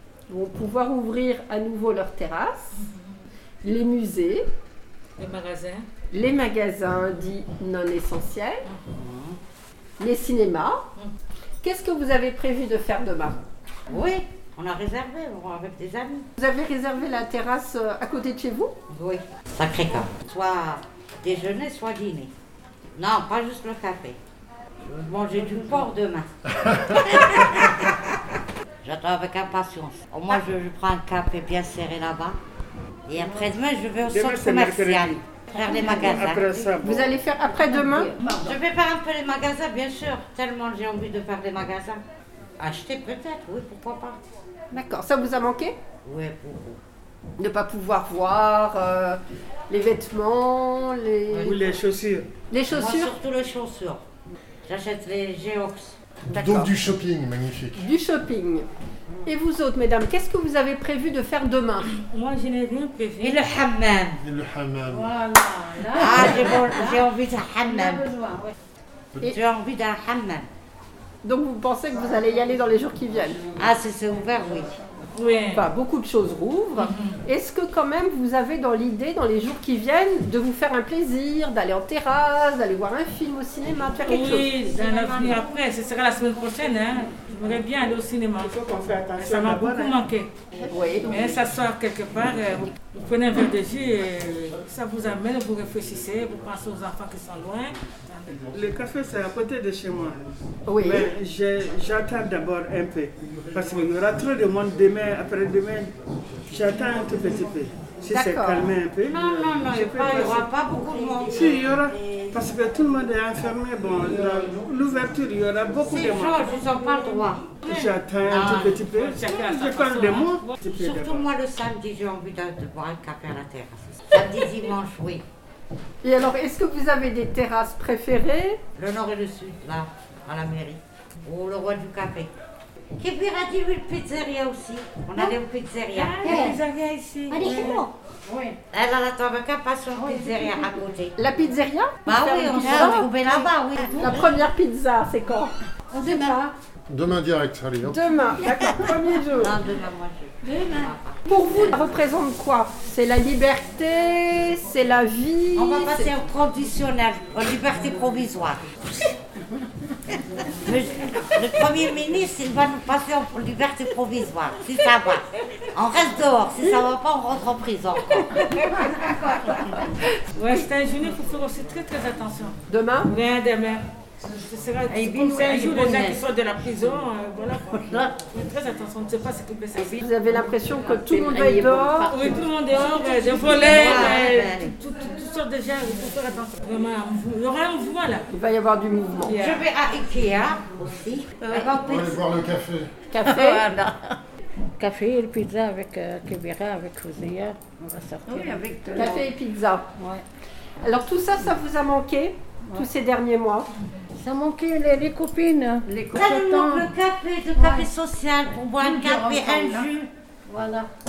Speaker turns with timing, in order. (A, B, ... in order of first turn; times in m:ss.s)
0:00.3-0:02.8 A
0:02.8-0:03.2 B
0:03.6-0:04.4 A
0:05.2-0:05.8 B
0:06.1-0:08.6 A
0:08.9-0:09.4 C
0:10.0-0:10.8 A
0:11.6-0:13.4 A
0:13.9-0:16.3 C
0:16.4-0:18.7 A
0:18.9-0:22.3 C
0:23.0-0:24.2 C
0:24.8-0:26.3 C
0:26.6-0:27.6 D
0:26.9-0:27.9 C
0:28.8-0:32.4 C
0:33.1-0:36.6 C
0:34.1-0:37.1 E
0:36.8-0:38.1 A
0:38.2-0:42.0 C
0:42.6-0:44.2 C
0:44.7-0:45.7 A
0:46.0-0:46.8 C
0:47.4-0:51.6 A
0:51.3-0:51.6 C
0:51.4-0:52.3 E
0:52.5-0:53.2 A
0:52.7-0:54.0 C
0:54.7-0:56.5 C
0:56.3-0:57.9 D
0:56.3-0:56.8 A
0:57.8-0:58.7 A
0:59.2-1:01.9 A
1:02.1-1:03.5 B
1:03.2-1:04.2 C
1:04.2-1:05.1 D
1:04.9-1:07.1 F
1:05.9-1:08.1 C
1:07.6-1:08.5 F
1:09.2-1:10.5 C
1:11.2-1:13.4 A
1:13.6-1:14.7 C
1:15.2-1:15.6 B
1:15.6-1:24.5 A
1:16.8-1:17.2 B
1:24.0-1:28.6 B
1:24.6-1:25.5 C
1:28.4-1:30.0 E
1:29.2-1:30.3 B
1:30.7-1:31.2 A
1:31.0-1:38.4 B
1:38.5-1:45.9 E
1:40.7-1:41.1 A
1:46.5-1:50.5 E
1:48.1-1:48.7 A
1:49.1-1:51.7 C
1:51.2-1:56.6 E
1:55.9-1:57.6 C
1:56.6-2:00.6 B
1:57.6-2:01.3 E
1:58.3-1:58.8 C
2:00.7-2:05.2 C
2:06.0-2:08.6 A
2:08.8-2:12.3 C
2:13.0-2:16.6 C
2:15.9-2:17.9 B
2:17.3-2:17.9 C
2:18.3-2:18.6 F
2:18.7-2:21.1 C
2:19.9-2:20.8 F
2:21.2-2:23.4 A
2:22.1-2:24.2 C
2:23.4-2:24.2 F
2:24.0-2:25.5 A
2:25.9-2:26.5 F
2:26.9-2:28.0 D
2:27.8-2:29.6 A
2:29.4-2:31.2 C
2:30.5-2:30.9 F
2:31.3-2:36.1 A
2:35.6-2:38.7 C
2:40.6-2:49.5 C
2:49.7-2:50.1 A
2:50.4-2:52.6 B
2:52.7-2:53.1 A
2:53.1-3:00.0 B
2:54.9-2:56.2 F
2:57.9-2:58.1 F
3:00.0-3:02.2 A
3:00.8-3:04.0 F
3:02.1-3:08.2 B
3:03.4-3:04.7 C
3:08.3-3:09.4 A
3:09.2-3:09.7 B
3:09.3-3:12.5 C
3:11.8-3:12.9 D
3:13.1-3:13.7 A
3:13.2-3:14.2 F
3:14.8-3:19.3 F
3:18.3-3:19.2 C
3:18.9-3:19.9 A
3:20.0-3:20.2 F
3:20.8-3:23.7 A
3:24.2-3:26.9 F
3:26.1-3:30.1 C
3:27.5-3:28.0 F
3:28.7-3:29.9 F
3:30.5-3:30.9 F